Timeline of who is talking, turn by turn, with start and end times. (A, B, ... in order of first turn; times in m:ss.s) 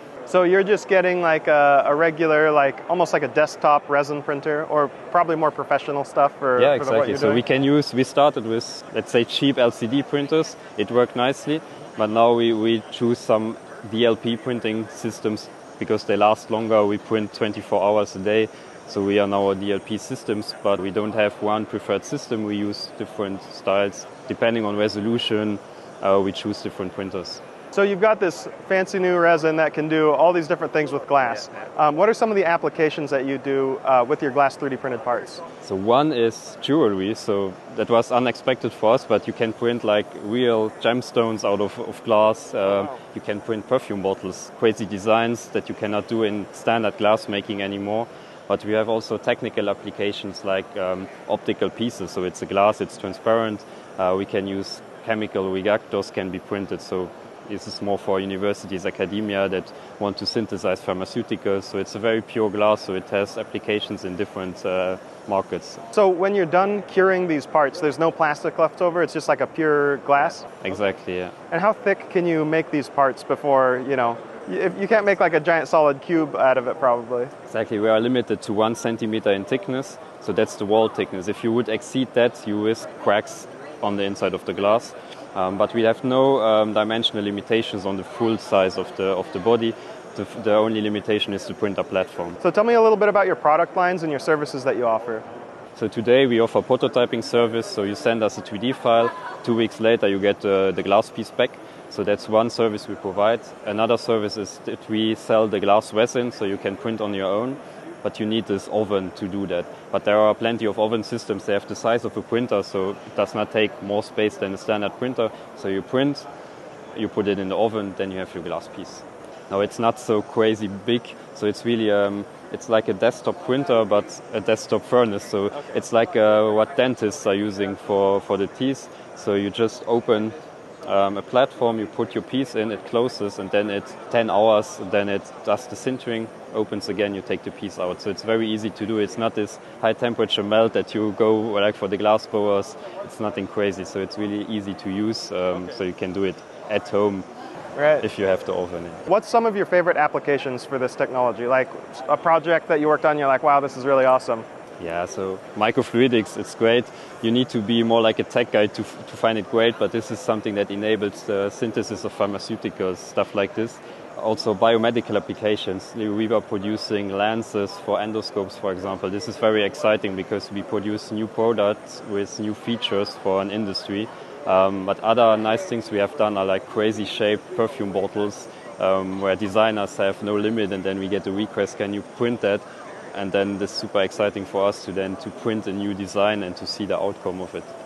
0:00.3-0:07.4 A
0:06.6-0:27.4 B
0:27.7-0:35.4 A
0:35.6-1:05.8 B
1:05.9-1:10.5 A
1:10.6-1:11.3 B
1:11.5-1:17.3 A
1:17.5-1:32.4 B
1:32.4-1:35.2 A
1:35.8-1:56.3 B
1:56.9-2:27.2 B
2:27.8-2:28.0 A
2:28.0-2:29.0 B
2:29.1-2:34.4 A
2:34.8-3:02.6 B
3:03.1-3:07.7 B